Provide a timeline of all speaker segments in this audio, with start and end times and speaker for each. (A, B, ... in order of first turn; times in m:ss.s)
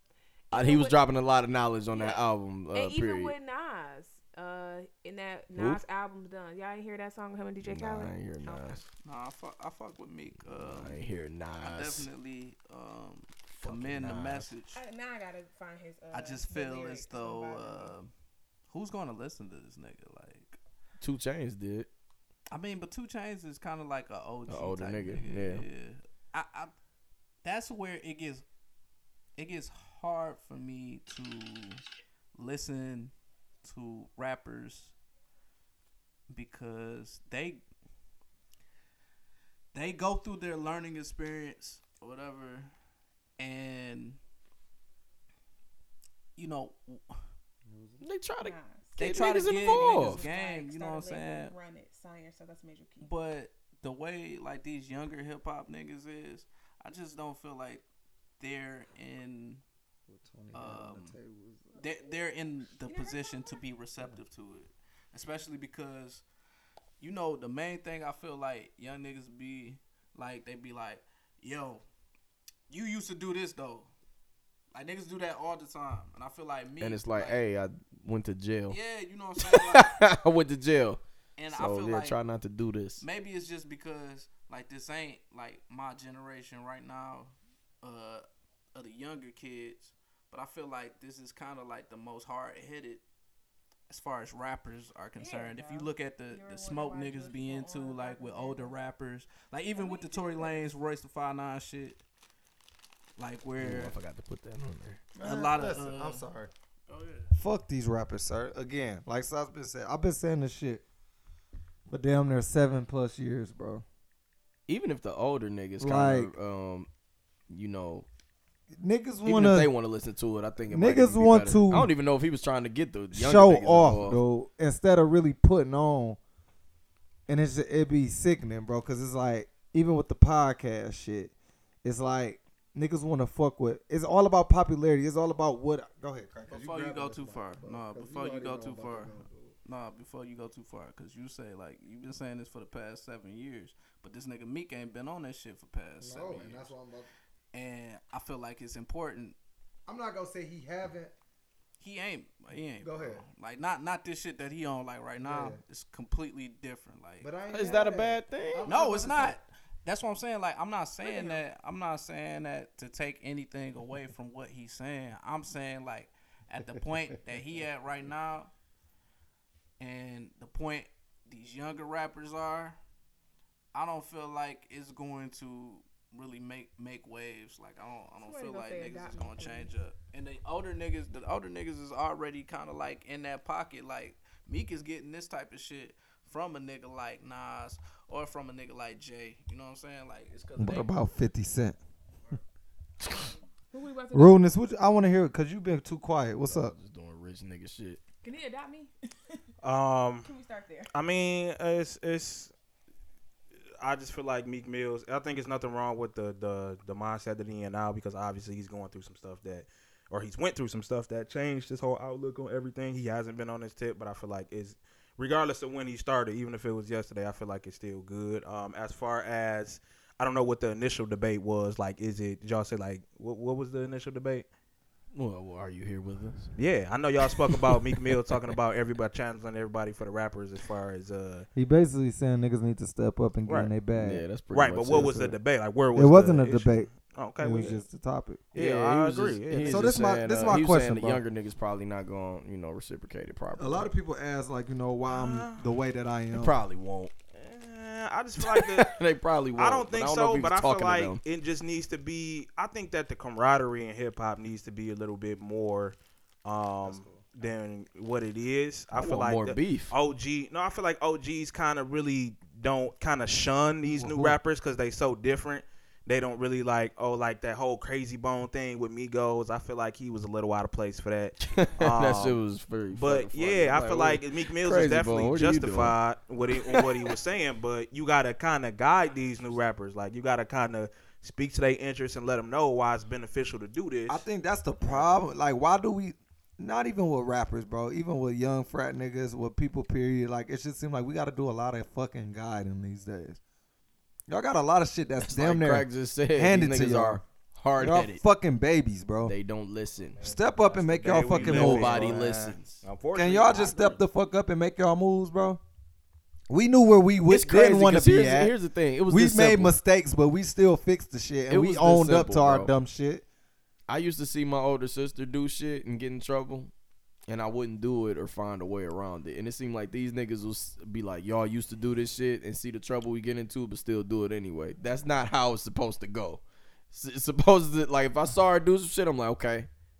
0:00.5-0:01.0 A
0:00.5-0:03.3 B
0:01.9-0:08.6 A
0:05.6-0:05.8 B
0:07.6-0:08.9 B
0:08.7-0:11.0 C
0:10.4-0:12.1 B
0:11.6-0:14.8 C
0:13.6-0:14.5 B
0:14.7-0:17.9 A
0:16.1-0:18.1 C
0:18.7-0:20.6 C
0:21.0-0:21.9 B
0:22.5-0:26.7 C
0:24.5-0:25.7 B
0:27.4-0:28.4 C
0:29.4-0:31.8 C
0:32.4-0:33.1 C
0:33.6-0:34.9 C
0:36.3-0:37.6 C
0:39.7-0:42.7 C
0:43.4-0:44.2 C
0:46.4-0:47.0 C
0:47.7-0:48.0 D
0:48.0-0:50.2 B
0:48.4-0:53.1 A
0:49.0-0:51.5 C
0:53.0-0:57.8 C
0:58.4-0:59.6 C
1:00.1-1:01.8 D
1:00.5-1:01.2 C
1:01.8-1:06.2 C
1:02.8-1:03.6 A
1:07.0-1:11.8 C
1:12.7-1:13.9 C
1:14.7-1:17.4 C
1:16.8-1:18.8 B
1:18.7-1:20.0 C
1:19.4-1:23.0 B
1:21.4-1:22.2 C
1:23.0-1:33.0 C
1:33.9-1:42.0 C
1:35.2-1:38.8 A
1:39.8-1:40.6 A
1:43.2-1:44.0 C
1:43.6-1:45.1 B
1:45.2-1:46.5 D
1:45.2-1:46.3 C
1:46.9-1:47.4 C
1:47.3-1:50.8 D
1:51.9-1:53.8 D
1:54.7-1:56.9 B
1:55.8-1:56.3 D
1:57.5-1:58.1 B
1:58.8-1:59.7 D
1:59.2-2:04.2 B
2:00.7-2:01.9 D
2:03.1-2:06.2 D
2:07.3-2:11.3 D
2:11.8-2:19.6 D
2:16.5-2:26.7 C
2:26.0-2:27.1 D
2:27.5-2:29.4 C
2:29.9-2:31.1 D
2:31.8-2:37.3 C
2:32.8-2:33.2 D
2:35.2-2:35.6 D
2:37.2-2:39.4 D
2:37.5-2:38.9 B
2:38.6-2:48.5 C
2:41.0-2:41.4 A
2:49.8-2:52.8 C
2:53.7-3:11.0 C
2:58.2-2:59.7 A
3:10.6-3:11.8 D
3:13.7-3:14.4 A
3:14.1-3:16.8 D
3:16.4-3:18.0 B
3:18.2-3:19.4 A
3:19.6-3:20.3 E
3:20.2-3:20.9 A
3:20.9-3:22.5 E
3:23.8-3:44.5 E
3:45.1-3:46.5 B
3:46.6-3:51.5 E
3:47.2-3:48.4 B
3:51.6-3:54.2 D
3:53.5-3:53.7 E
3:53.9-3:55.4 B
3:54.5-3:57.8 E
3:55.9-3:58.5 D
3:58.5-4:00.1 E
3:58.5-4:03.9 B
3:59.6-4:01.2 D
4:03.6-4:06.6 D
4:05.1-4:05.6 E
4:06.4-4:07.1 B
4:07.4-4:09.0 E
4:08.4-4:11.2 B
4:09.6-4:32.4 E
4:16.8-4:17.2 D
4:18.9-4:20.0 B
4:24.0-4:24.4 D
4:31.4-4:36.0 B
4:32.9-4:44.2 E
4:36.6-4:37.0 B
4:44.1-4:53.4 D
4:44.8-4:45.1 E
4:54.3-4:57.2 D
4:55.2-4:58.2 B
4:57.8-4:59.4 D
4:59.2-5:00.2 B
5:00.2-5:04.0 E
5:00.2-5:02.2 D
5:01.0-5:02.8 B
5:03.1-5:05.6 D
5:06.5-5:13.2 D
5:07.3-5:09.8 B
5:11.5-5:12.7 B
5:13.9-5:16.7 B
5:17.3-5:29.7 B